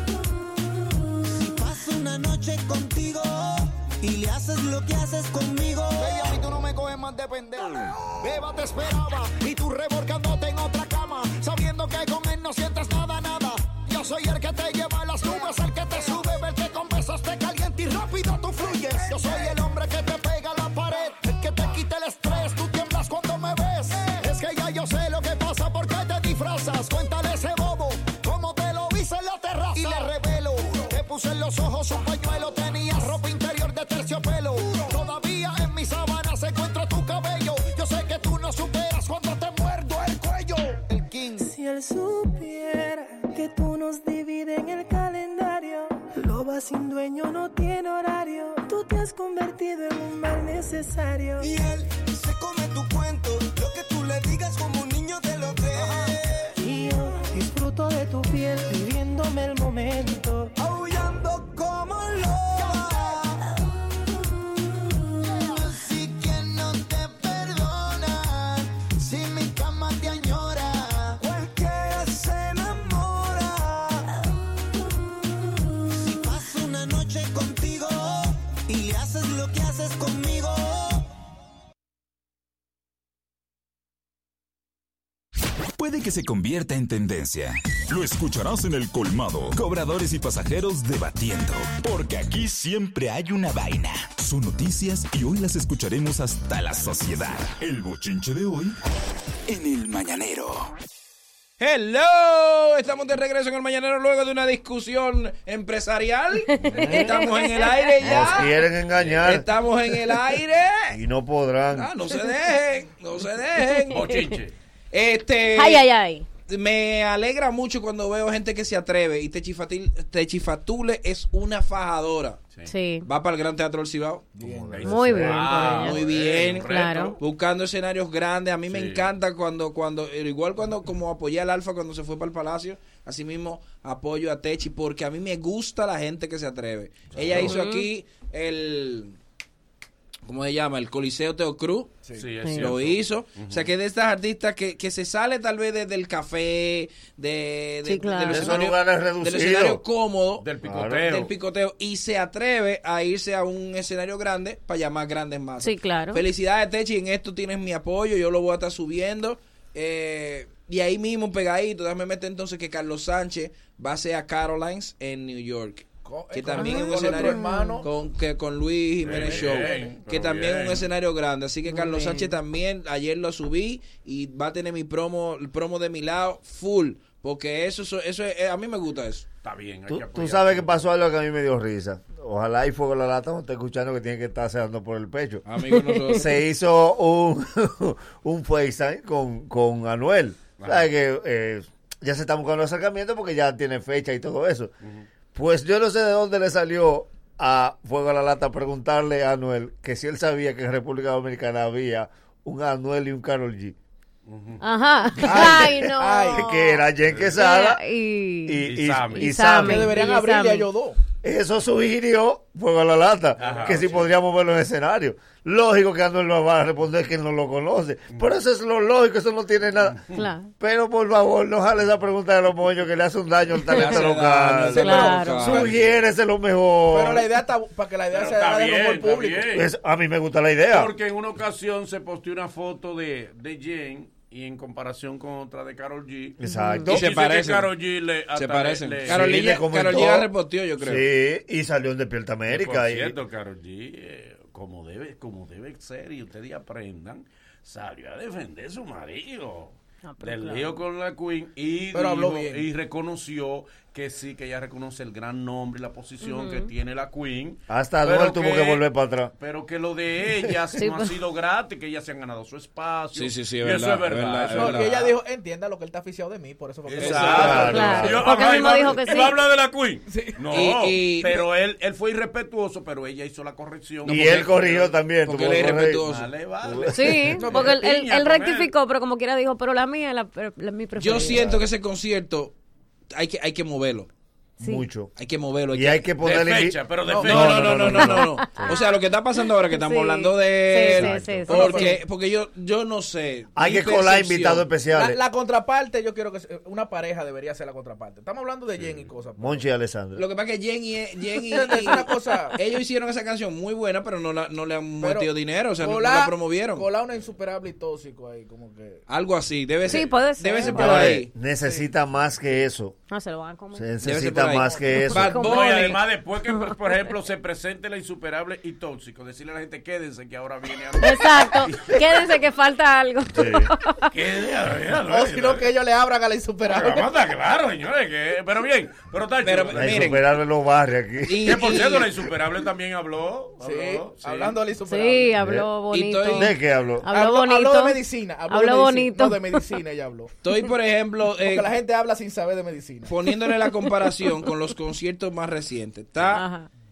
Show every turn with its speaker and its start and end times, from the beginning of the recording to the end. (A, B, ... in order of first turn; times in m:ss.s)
0:01.2-0:06.1 A
0:06.0-0:41.5 B
0:41.4-0:51.5 C
0:51.4-0:56.5 A
0:56.6-1:00.5 C
1:00.6-1:03.4 A
1:02.6-1:02.9 B
1:05.3-1:05.6 B
1:05.4-1:09.1 A
1:09.1-1:10.6 B
1:10.1-1:10.4 A
1:11.0-1:14.2 A
1:15.9-1:21.1 A
1:25.8-1:38.8 D
1:39.5-1:40.7 D
1:41.6-1:48.5 E
1:46.6-1:48.3 F
1:48.0-1:49.5 G
1:49.2-1:51.0 E
1:50.9-1:51.9 G
1:51.7-1:54.0 E
1:53.7-1:54.2 F
1:53.9-1:54.6 H
1:54.9-1:55.9 E
1:55.5-1:56.3 F
1:56.5-2:02.4 E
2:02.7-2:03.1 F
2:03.0-2:04.3 E
2:04.4-2:04.9 I
2:04.7-2:07.2 H
2:04.8-2:06.1 F
2:05.1-2:19.2 E
2:06.6-2:07.2 F
2:08.7-2:09.1 H
2:17.2-2:17.6 H
2:17.4-2:17.9 F
2:20.3-2:21.9 E
2:22.2-2:23.7 H
2:22.4-2:22.7 F
2:22.6-2:30.5 E
2:27.8-2:28.5 F
2:28.3-2:29.8 G
2:30.4-2:31.3 H
2:30.6-2:31.1 G
2:31.0-2:59.3 E
2:35.6-2:36.2 F
2:46.0-2:47.9 I
2:46.6-2:47.8 F
2:49.0-2:50.9 H
2:49.3-2:49.8 I
2:51.7-2:52.3 F
2:59.4-3:00.9 H
2:59.9-3:05.4 G
3:05.4-3:06.4 E
3:05.7-3:06.2 F
3:06.1-3:14.7 G
3:10.6-3:10.9 H
3:15.3-3:23.8 G
3:24.3-3:24.6 H
3:24.6-3:26.8 F
3:25.2-3:26.5 I
3:25.4-3:27.8 G
3:27.1-3:27.3 H
3:27.3-3:30.7 F
3:28.5-3:29.9 G
3:28.6-3:29.4 H
3:29.6-3:31.0 I
3:31.2-3:40.0 G
3:33.4-3:34.1 H
3:39.9-3:40.2 H
3:40.1-3:40.5 F
3:40.6-3:47.3 G
3:43.7-3:43.9 F
3:43.7-3:45.7 E
3:44.8-3:45.7 F
3:46.9-3:49.5 I
3:48.1-3:49.7 H
3:49.5-3:50.9 G
3:50.7-3:59.3 H
3:56.4-3:57.1 G
3:56.4-3:56.9 F
3:56.9-3:57.7 E
3:58.4-4:01.1 E
3:59.1-4:03.2 G
4:02.5-4:18.9 H
4:10.0-4:10.8 F
4:11.9-4:12.6 I
4:16.2-4:16.7 F
4:17.7-4:19.3 G
4:19.4-4:25.1 H
4:20.8-4:21.2 F
4:23.2-4:25.0 E
4:24.5-4:27.8 I
4:26.9-4:34.9 H
4:27.0-4:27.9 E
4:27.3-4:28.2 G
4:27.6-4:29.4 F
4:30.1-4:30.3 I
4:30.5-4:31.4 E
4:34.1-4:36.0 G
4:35.2-4:36.3 E
4:36.0-4:38.7 H
4:36.6-4:37.4 G
4:36.9-4:41.5 F
4:37.4-4:37.7 I
4:41.0-4:42.6 E
4:41.3-4:41.6 G
4:43.1-4:44.1 E
4:44.6-4:44.9 F
4:44.6-4:45.1 G
4:45.2-4:46.0 E
4:45.7-4:48.6 G
4:46.2-4:48.0 H
4:47.3-4:54.7 E
4:48.0-4:52.0 F
4:51.0-4:51.4 G
4:51.5-4:51.9 I
4:53.6-4:55.2 G
4:54.9-4:59.6 I
4:58.8-4:59.1 H
4:59.4-5:00.2 G
5:00.2-5:06.9 E
5:01.4-5:02.6 I
5:05.0-5:09.0 I
5:09.1-5:11.3 E
5:09.9-5:11.1 F
5:10.7-5:13.0 G
5:13.1-5:13.9 F
5:13.7-5:15.4 G
5:14.0-5:16.0 E
5:14.9-5:15.9 F
5:15.4-5:22.3 H
5:16.5-5:16.9 F
5:21.0-5:24.1 F
5:23.3-5:23.7 G
5:24.1-5:25.7 H
5:25.1-5:27.1 I
5:26.7-5:30.1 H
5:29.4-5:30.2 E
5:29.7-5:31.8 G
5:31.3-5:32.1 E
5:31.4-5:34.6 H
5:33.6-5:35.4 I
5:34.8-5:39.8 F
5:35.4-5:35.7 G
5:35.9-5:36.5 E
5:36.3-5:37.1 G
5:37.1-5:40.3 I
5:40.4-5:41.7 E
5:41.4-5:43.1 I
5:43.1-5:46.4 E
5:46.3-5:46.7 F